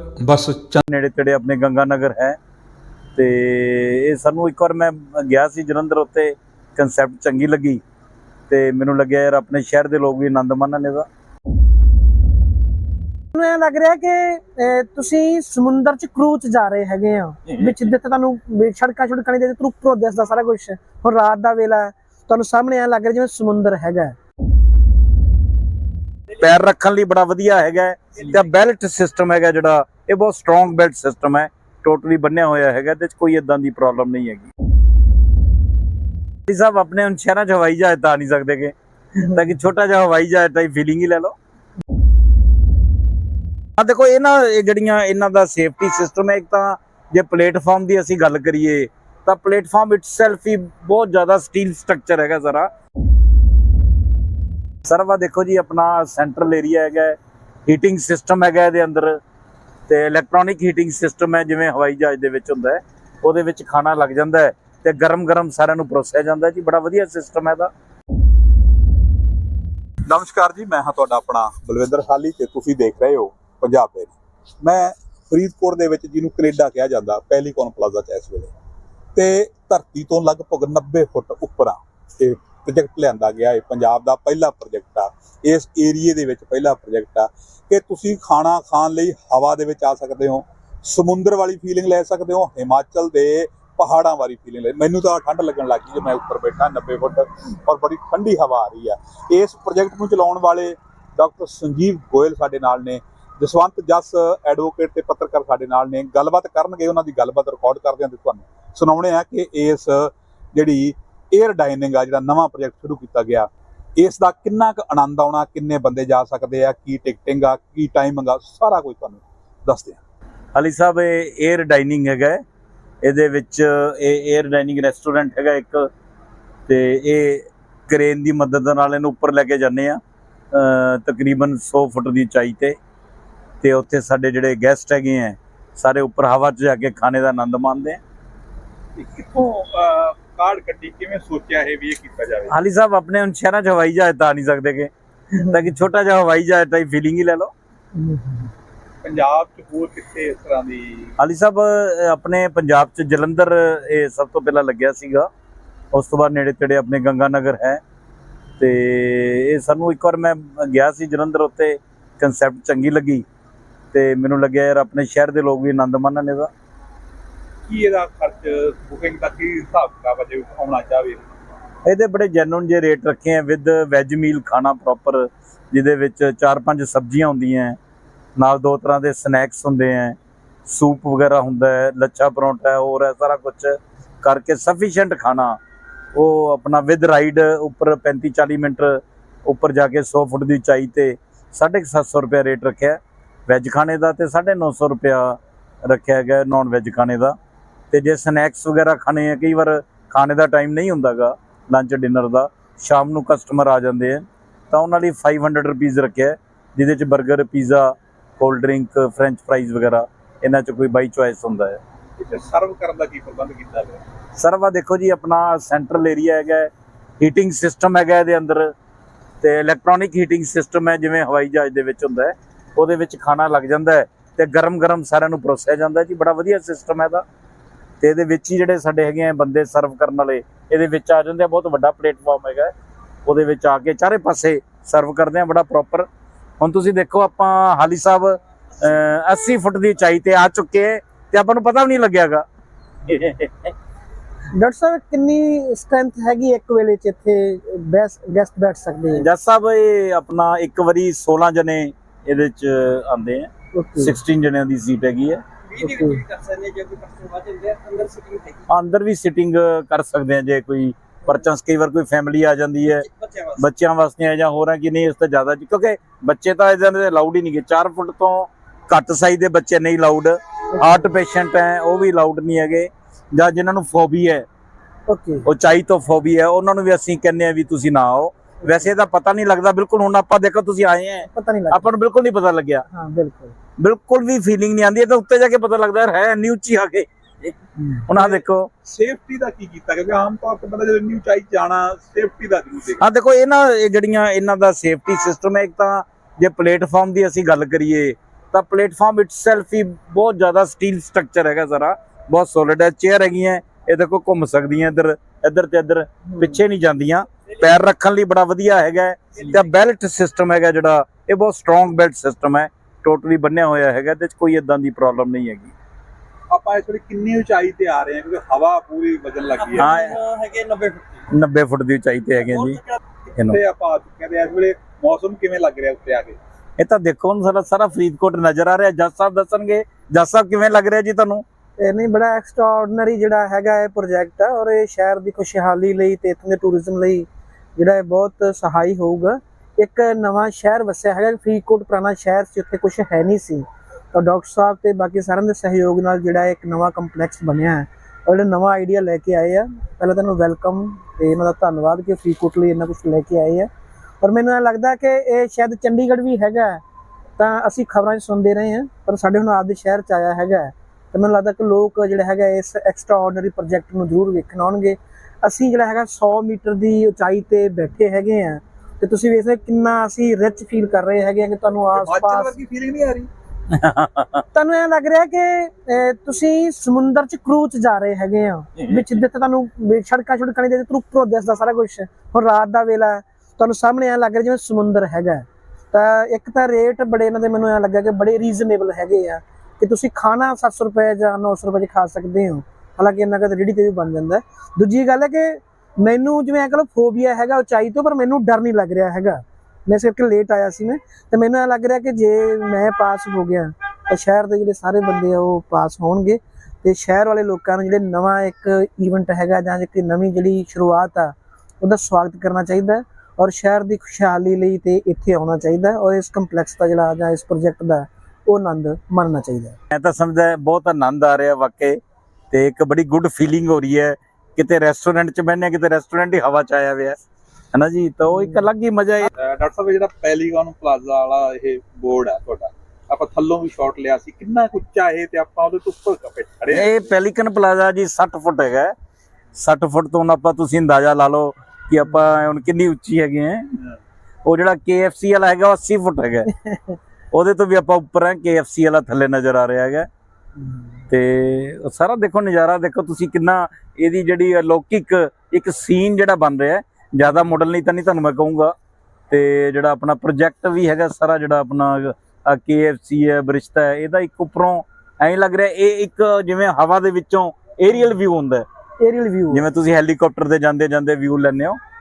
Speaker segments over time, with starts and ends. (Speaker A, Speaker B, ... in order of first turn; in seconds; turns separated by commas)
Speaker A: 0.8-2.4, Speaker A: 3.1-7.8, Speaker A: 8.5-11.1, Speaker B: 13.3-24.1, Speaker A: 26.4-34.5, Speaker A: 36.5-41.4, Speaker A: 43.8-52.7, Speaker A: 54.9-59.2, Speaker A: 59.9-67.7, Speaker C: 70.1-78.5, Speaker C: 79.1-120.0, Speaker A: 120.5-122.4, Speaker A: 123.0-125.9, Speaker A: 126.7-130.0, Speaker A: 130.5-132.8, Speaker A: 133.6-138.0, Speaker C: 138.9-142.5, Speaker A: 142.5-147.5, Speaker B: 147.9-148.5, Speaker C: 149.0-151.2, Speaker A: 151.2-155.3, Speaker A: 155.9-157.8, Speaker A: 158.6-163.2, Speaker A: 163.9-166.5, Speaker C: 167.7-171.3, Speaker A: 171.8-177.8, Speaker A: 178.4-180.2, Speaker A: 180.7-185.6, Speaker A: 186.1-197.3, Speaker A: 197.9-211.8, Speaker C: 212.2-214.0, Speaker A: 214.3-218.7, Speaker A: 219.4-227.2, Speaker A: 228.0-232.7, Speaker A: 233.2-236.1, Speaker A: 236.6-242.4, Speaker A: 243.1-243.7, Speaker B: 244.5-249.3, Speaker A: 249.1-255.4, Speaker B: 253.7-254.2, Speaker D: 255.7-258.6, Speaker B: 255.8-256.2, Speaker A: 258.7-274.4, Speaker D: 263.1-263.6, Speaker B: 270.8-271.1, Speaker B: 275.1-275.5, Speaker A: 275.4-282.8, Speaker B: 281.3-281.9, Speaker B: 282.9-283.5, Speaker A: 283.8-288.7, Speaker C: 288.1-293.0, Speaker A: 293.0-315.7, Speaker B: 306.3-306.6, Speaker C: 316.5-319.9, Speaker D: 319.7-321.1, Speaker A: 319.8-320.2, Speaker A: 321.3-322.8, Speaker C: 323.4-326.4, Speaker A: 326.8-331.4, Speaker B: 331.8-353.7, Speaker B: 354.2-356.8, Speaker B: 357.4-372.5, Speaker C: 371.9-373.3, Speaker A: 373.7-374.4, Speaker B: 374.5-419.8, Speaker A: 419.9-422.0, Speaker A: 422.5-427.2, Speaker A: 427.7-429.3, Speaker B: 428.3-428.6, Speaker C: 429.3-437.1, Speaker A: 436.7-438.9, Speaker A: 439.6-443.7, Speaker A: 444.4-446.5, Speaker B: 446.6-447.0, Speaker A: 447.3-450.1, Speaker A: 451.1-458.7, Speaker A: 459.3-468.6, Speaker B: 469.0-469.7, Speaker A: 469.5-471.8